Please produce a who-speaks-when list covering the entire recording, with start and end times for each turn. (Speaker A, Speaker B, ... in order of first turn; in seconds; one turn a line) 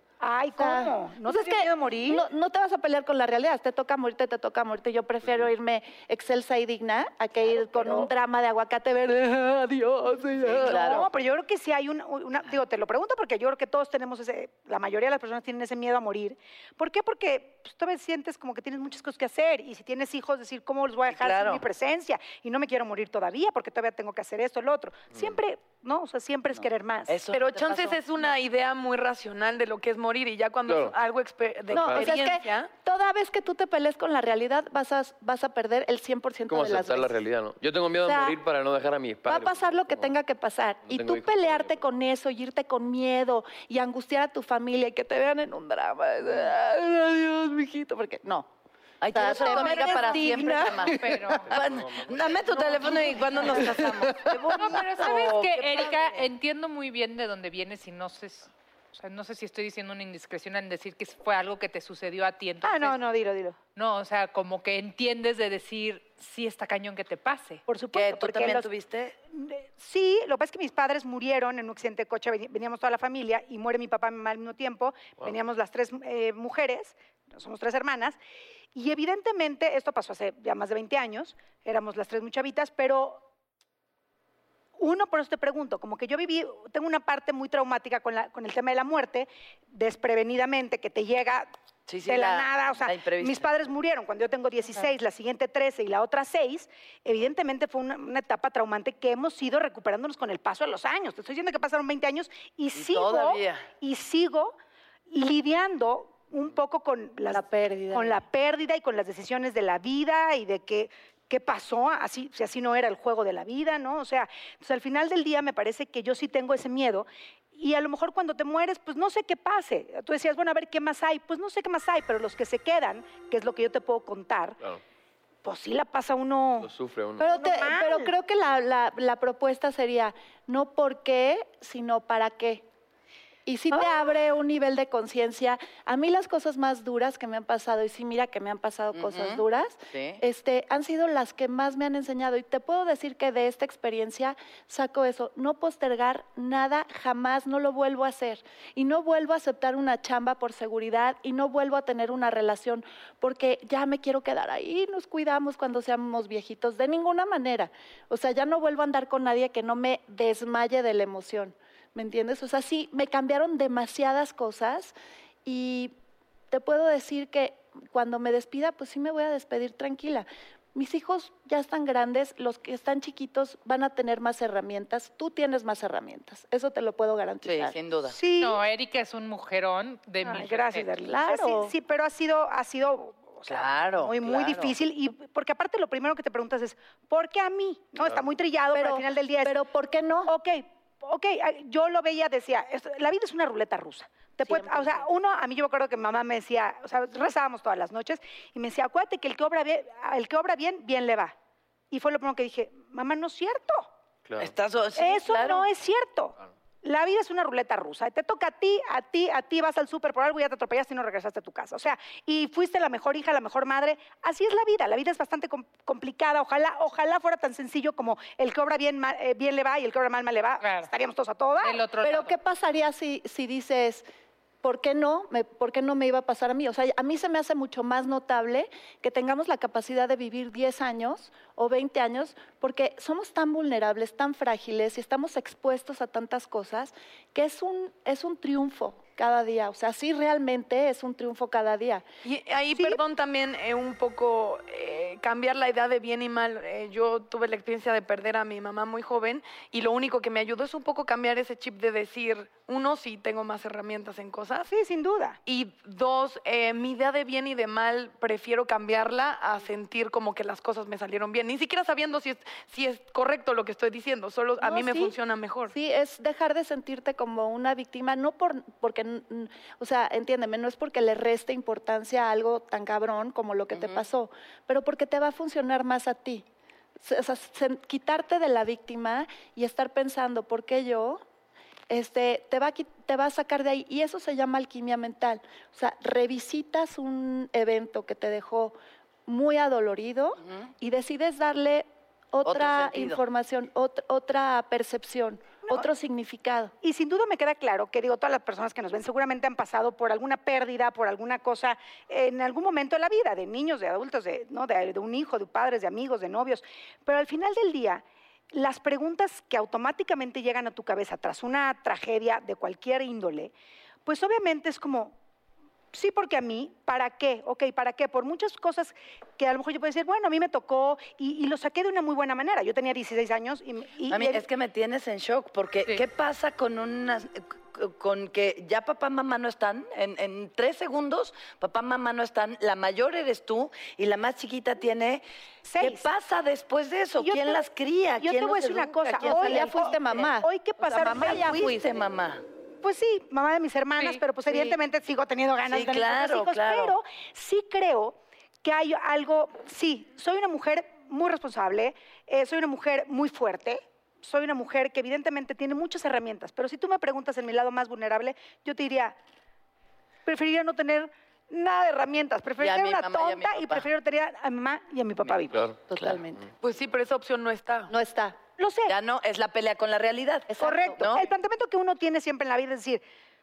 Speaker A: 0.2-2.2
Speaker B: 0.6-10.9
Speaker A: 7.6-8.0
Speaker A: 10.4-27.2
Speaker C: 10.6-11.1
Speaker C: 21.1-21.6
Speaker C: 27.1-28.0
Speaker D: 27.3-32.7
Speaker E: 30.7-30.9
Speaker E: 31.7-32.2
Speaker B: 31.7-37.1
Speaker E: 36.5-40.1
Speaker B: 38.0-38.4
Speaker B: 39.2-48.5
Speaker E: 40.9-41.8
Speaker C: 49.0-56.2
Speaker B: 49.1-51.2
Speaker F: 49.3-51.5
Speaker E: 51.5-52.4
Speaker F: 52.9-53.6
Speaker F: 54.5-63.0
Speaker A: 62.6-63.6
Speaker F: 63.8-67.6
Speaker A: 67.7-68.7
Speaker C: 67.9-69.1
Speaker A: 69.3-78.2
Speaker A: 78.8-83.2
Speaker A: 84.8-91.5
Speaker C: 91.9-93.5
Speaker A: 92.0-104.6
Speaker C: 102.8-103.7
Speaker A: 105.1-124.6
Speaker B: 107.3-108.2
Speaker A: 125.4-126.7
Speaker E: 126.6-127.2
Speaker B: 127.2-132.6
Speaker A: 127.2-128.1
Speaker B: 133.4-164.9
Speaker C: 138.9-140.2
Speaker B: 165.4-165.9
Speaker B: 166.5-177.8
Speaker C: 177.4-178.2
Speaker A: 178.1-178.6
Speaker F: 178.4-180.9
Speaker A: 180.2-189.6
Speaker B: 181.1-181.7
Speaker C: 183.5-184.8
Speaker B: 188.7-190.3
Speaker A: 190.3-201.3
Speaker B: 194.4-195.1
Speaker A: 201.9-203.9
Speaker E: 204.2-204.5
Speaker C: 204.4-205.7
Speaker A: 204.9-221.9
Speaker F: 220.6-220.9
Speaker F: 221.6-222.3
Speaker B: 222.0-224.1
Speaker B: 224.6-242.1
Speaker D: 242.2-254.7
Speaker A: 254.7-255.4
Speaker D: 255.4-265.8
Speaker B: 264.6-265.1
Speaker B: 265.7-276.4
Speaker C: 273.7-274.0
Speaker B: 277.0-281.2
Speaker B: 281.9-296.7
Speaker C: 292.4-293.2
Speaker A: 295.6-295.9
Speaker A: 296.8-313.5
Speaker A: 314.1-315.1
Speaker A: 315.9-324.5
Speaker C: 324.1-335.2
Speaker A: 335.6-336.1
Speaker C: 335.8-340.3
Speaker A: 337.1-337.6
Speaker A: 338.2-341.8
Speaker B: 339.2-341.7
Speaker C: 340.9-342.4
Speaker A: 342.8-359.2
Speaker C: 345.7-347.0
Speaker A: 360.2-365.6
Speaker C: 362.6-363.9
Speaker E: 365.5-365.8
Speaker C: 365.9-366.4
Speaker D: 366.6-367.9
Speaker B: 367.9-368.4
Speaker A: 368.6-369.0
Speaker C: 368.9-371.3
Speaker B: 370.5-371.1
Speaker A: 370.6-373.0